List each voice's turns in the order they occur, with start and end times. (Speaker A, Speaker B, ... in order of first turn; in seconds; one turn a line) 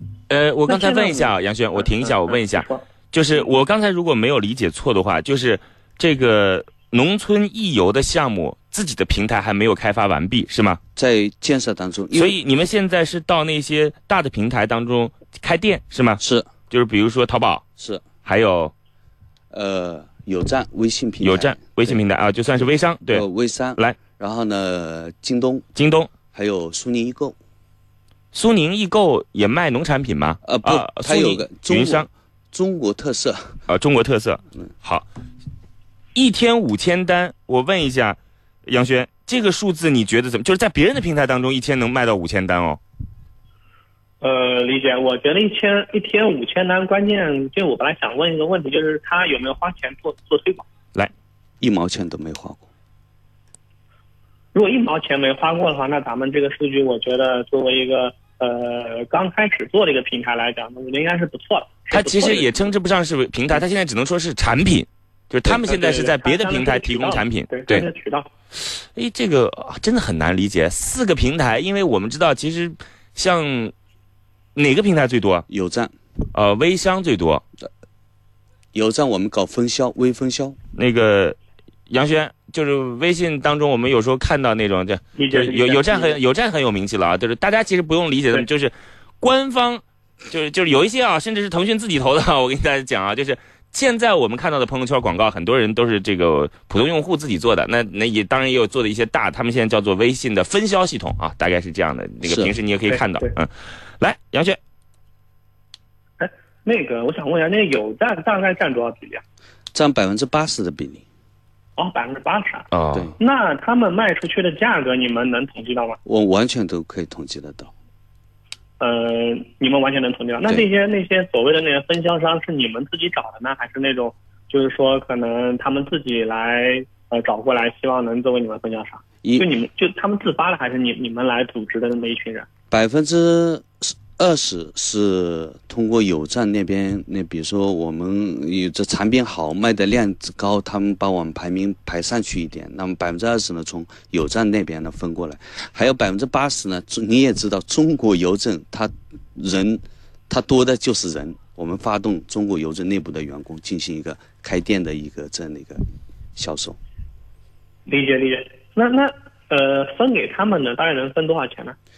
Speaker A: 0.3-10.8
Speaker B: 0.7-2.8
Speaker C: 11.0-12.4
Speaker A: 12.1-17.6
Speaker C: 16.2-16.5
Speaker C: 17.8-18.0
Speaker A: 18.2-18.7
Speaker C: 19.5-22.0
Speaker A: 21.2-23.2
Speaker C: 23.1-25.6
Speaker A: 25.8-26.1
Speaker C: 26.3-27.4
Speaker A: 28.3-32.1
Speaker C: 30.4-33.5
Speaker A: 33.7-35.1
Speaker A: 36.1-42.8
Speaker B: 44.2-50.6
Speaker C: 51.6-52.6
Speaker B: 54.5-62.5
Speaker A: 61.9-67.8
Speaker B: 65.5-68.3
Speaker A: 68.6-73.7
Speaker A: 74.5-75.5
Speaker C: 75.5-75.9
Speaker A: 76.3-77.4
Speaker C: 78.7-80.6
Speaker A: 80.8-81.4
Speaker A: 81.9-104.6
Speaker B: 85.2-86.2
Speaker C: 102.2-102.5
Speaker B: 102.9-103.3
Speaker B: 106.2-109.2
Speaker C: 109.7-111.0
Speaker B: 111.8-116.0
Speaker A: 112.7-113.1
Speaker C: 116.0-117.7
Speaker B: 118.8-132.5
Speaker C: 132.7-155.8
Speaker C: 156.4-156.8
Speaker B: 157.9-161.8